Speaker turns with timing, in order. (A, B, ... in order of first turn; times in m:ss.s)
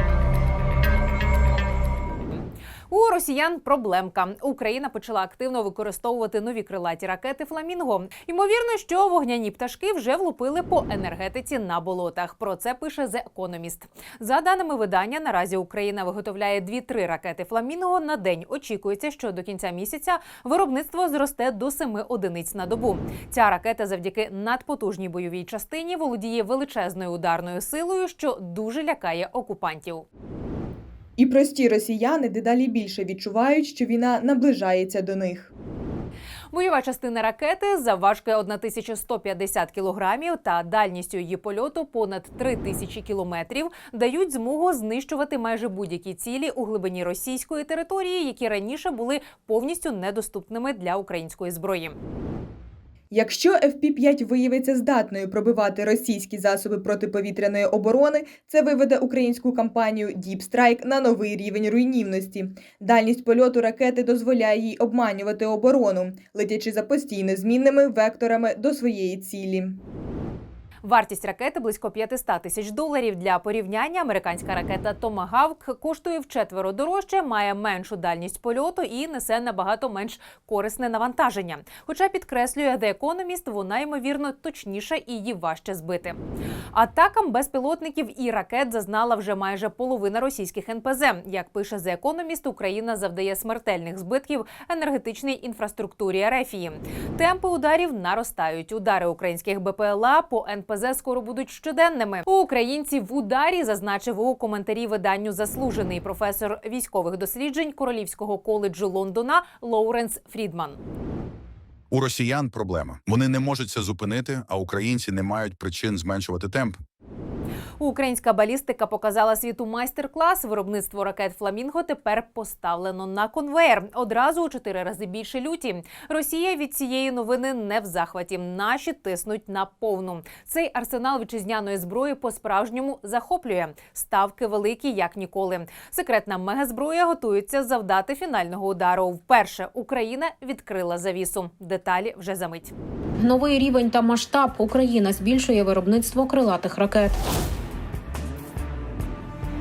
0:02.9-0:30.1 A
0:31.2-0:35.5 B
0:36.5-0:52.0 A
0:53.1-1:09.8 B
1:10.8-1:26.2 A
1:26.7-1:50.8 A
1:52.0-1:56.7 C
1:57.8-2:22.7 A
2:23.2-2:27.2 D